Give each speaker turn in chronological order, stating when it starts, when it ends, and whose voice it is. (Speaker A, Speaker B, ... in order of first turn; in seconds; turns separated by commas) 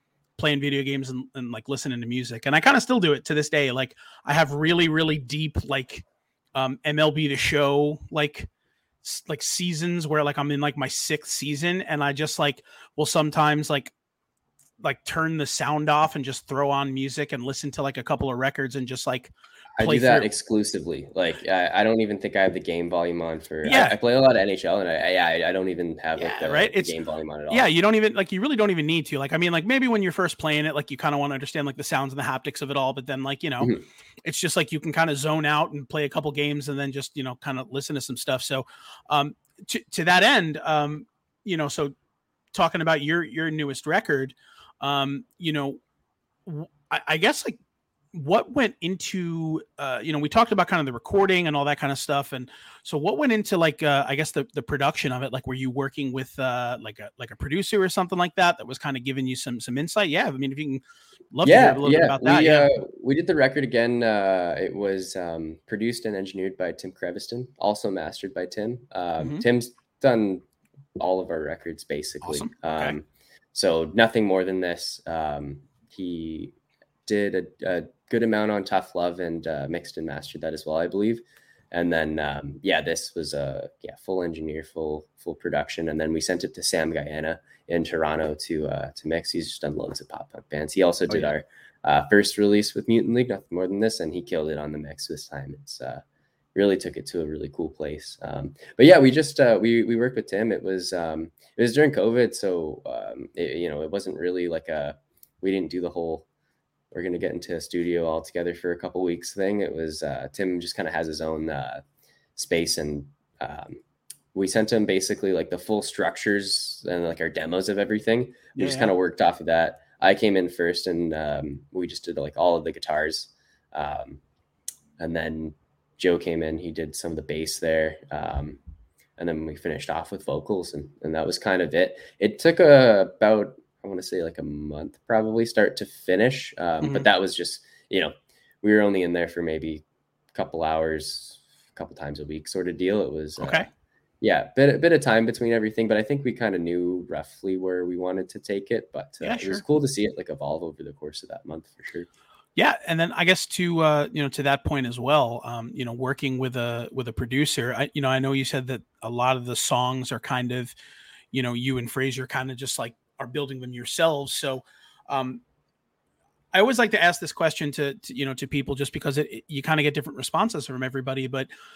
Speaker A: 0.4-8.5, Speaker A: 9.0-13.9, Speaker A: 14.8-20.3, Speaker B: 19.8-27.7, Speaker A: 23.6-24.0, Speaker A: 26.2-26.9, Speaker A: 27.5-41.9, Speaker A: 42.5-45.8, Speaker A: 46.5-47.6, Speaker A: 48.1-62.7, Speaker B: 61.4-70.4, Speaker B: 71.0-76.5, Speaker A: 72.2-73.0, Speaker B: 77.0-96.0, Speaker B: 96.5-106.2, Speaker B: 106.9-111.8, Speaker B: 112.3-113.8, Speaker B: 114.3-124.2, Speaker A: 118.5-118.9, Speaker B: 125.0-128.6, Speaker B: 129.2-139.8, Speaker A: 136.8-137.1, Speaker B: 140.3-143.7, Speaker A: 143.4-143.7, Speaker B: 144.2-152.1, Speaker A: 149.2-149.6, Speaker A: 152.6-160.7, Speaker A: 161.3-165.4, Speaker A: 166.5-171.5